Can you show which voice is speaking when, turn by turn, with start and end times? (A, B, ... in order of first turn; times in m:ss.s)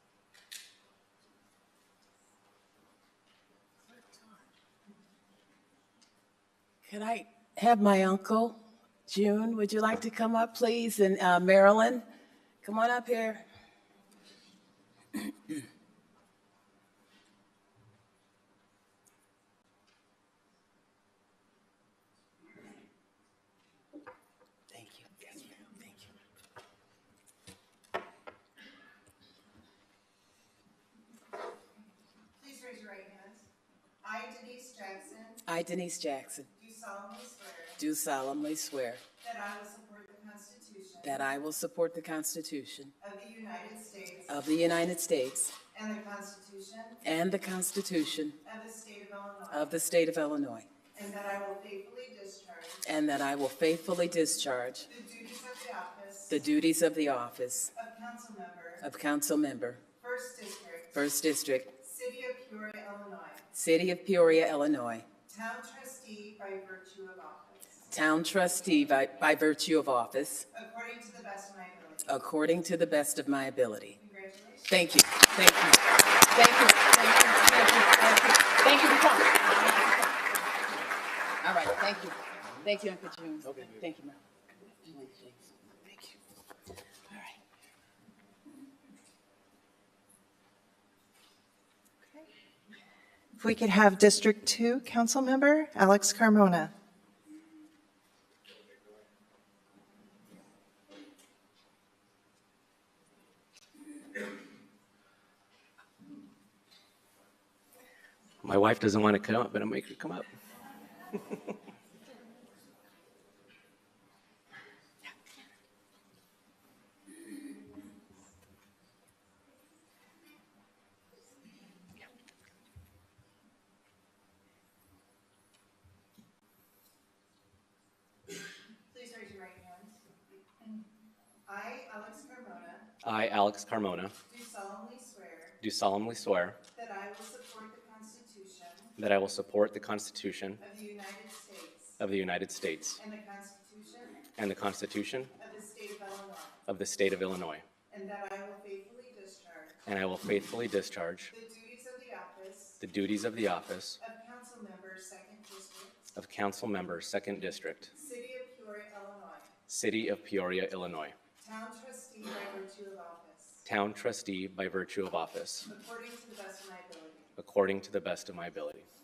0:06.8-0:12.0 A
0:12.6-0:13.4 A
0:24.7-0:26.1 A
0:32.4-0:33.5 B
0:34.0-0:35.4 B
0:35.4-0:36.5 A
0:36.5-0:37.8 B
0:37.8-0:39.0 A
0:39.2-0:41.2 B
0:41.0-0:42.9 A
0:43.0-0:44.3 B
0:44.3-0:45.5 A
0:45.7-0:47.0 B
0:47.0-0:48.4 A
0:48.4-0:49.7 B
0:49.5-0:50.7 A
0:50.9-0:52.8 B
0:52.8-0:54.9 A
0:54.8-0:56.4 B
0:56.3-0:57.7 A
0:57.8-0:58.8 B
0:58.8-0:59.8 A
1:00.0-1:01.0 B
1:00.9-1:01.7 A
1:01.8-1:03.5 B
1:03.5-1:05.1 A
1:05.3-1:07.9 B
1:07.9-1:10.5 A
1:10.5-1:12.1 B
1:12.0-1:14.0 A
1:14.0-1:14.8 B
1:14.7-1:19.9 A
1:21.4-1:26.2 A
1:27.1-1:27.4 A
1:33.4-1:36.7 C
1:48.4-1:50.3 D
2:08.9-2:10.0 B
2:11.5-2:12.9 B
2:13.0-2:14.2 D
2:14.3-2:15.6 B
2:15.6-2:16.6 D
2:16.7-2:19.0 B
2:19.0-2:20.6 D
2:20.6-2:22.0 B
2:22.0-2:23.0 D
2:23.0-2:24.2 B
2:24.4-2:25.3 D
2:25.4-2:26.6 B
2:26.7-2:27.6 D
2:27.9-2:29.8 B
2:29.9-2:31.3 D
2:31.3-2:32.8 B
2:32.8-2:34.0 D
2:34.0-2:36.2 B
2:36.2-2:37.9 D
2:37.9-2:39.5 B
2:39.7-2:41.2 D
2:41.4-2:43.6 B
2:43.6-2:45.7 D
2:45.7-2:47.3 B
2:47.4-2:48.9 D